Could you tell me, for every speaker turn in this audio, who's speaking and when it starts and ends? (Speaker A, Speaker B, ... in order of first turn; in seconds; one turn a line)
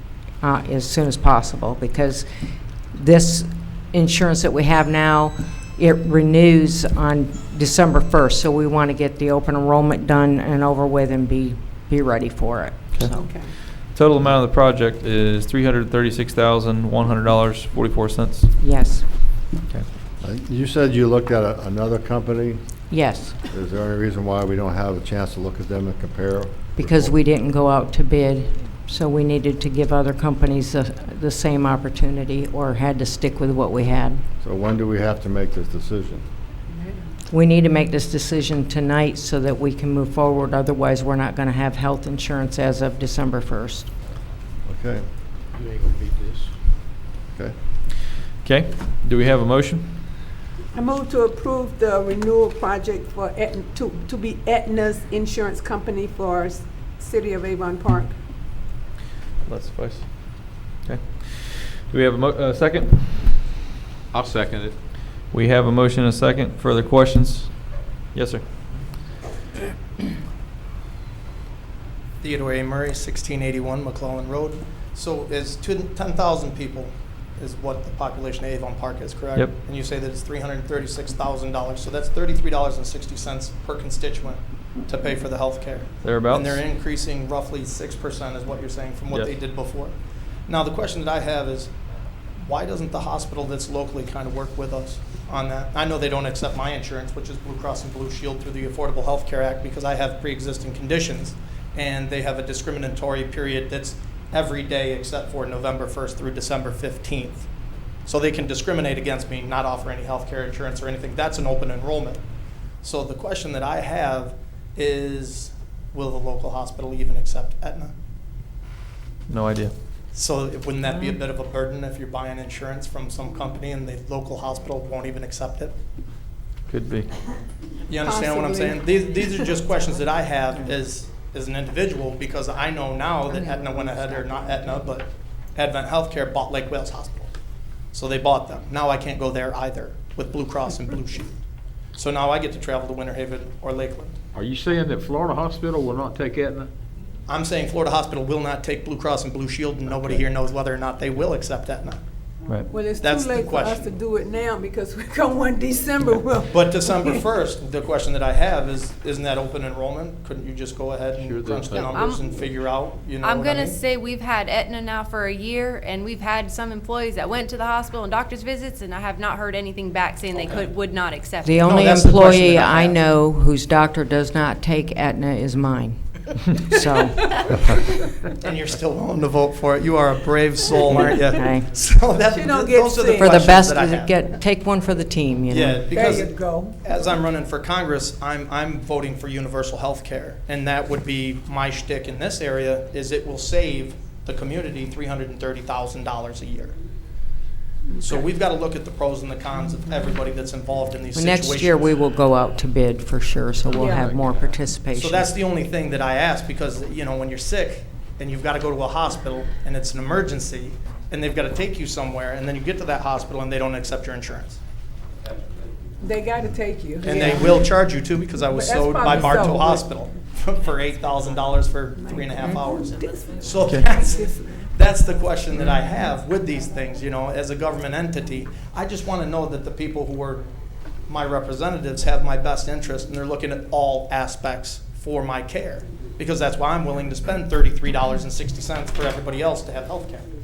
Speaker A: 0.4-13.3
Speaker B: 12.9-18.5
Speaker C: 13.1-13.5
Speaker A: 18.6-19.1
Speaker D: 20.2-27.1
Speaker A: 22.9-23.4
Speaker A: 26.8-34.2
Speaker D: 34.4-36.2
Speaker C: 36.7-37.1
Speaker A: 37.3-43.9
Speaker D: 44.6-45.0
Speaker E: 45.5-46.5
Speaker B: 48.4-49.9
Speaker C: 50.7-58.2
Speaker B: 59.4-63.4
Speaker E: 64.1-64.8
Speaker B: 65.3-68.4
Speaker F: 72.2-89.9
Speaker B: 86.0-86.6
Speaker B: 89.1-89.3
Speaker F: 90.5-91.7
Speaker F: 92.4-107.5
Speaker F: 108.0-112.2
Speaker F: 112.8-117.9
Speaker B: 119.3-119.7
Speaker F: 120.1-125.7
Speaker B: 126.7-127.1
Speaker F: 127.9-137.3
Speaker C: 128.0-128.7
Speaker F: 137.9-141.3
Speaker F: 141.9-144.1
Speaker E: 144.3-146.7
Speaker F: 147.3-152.0
Speaker C: 152.7-157.2
Speaker F: 152.9-153.9
Speaker F: 156.5-163.8
Speaker E: 161.2-162.0
Speaker G: 161.8-162.2
Speaker G: 163.2-172.0
Speaker A: 171.4-177.8
Speaker F: 171.7-173.0
Speaker F: 178.4-184.2
Speaker A: 180.9-181.7
Speaker C: 182.3-183.3
Speaker A: 183.2-185.8
Speaker F: 185.5-196.7
Speaker C: 185.9-186.8
Speaker F: 198.0-201.9
Speaker A: 201.1-205.3
Speaker C: 203.8-204.1
Speaker F: 204.9-214.6
Speaker C: 216.0-217.5
Speaker F: 217.0-230.4
Speaker C: 218.5-219.8
Speaker C: 222.0-223.2
Speaker B: 223.6-223.9
Speaker C: 224.2-224.7
Speaker F: 231.1-240.2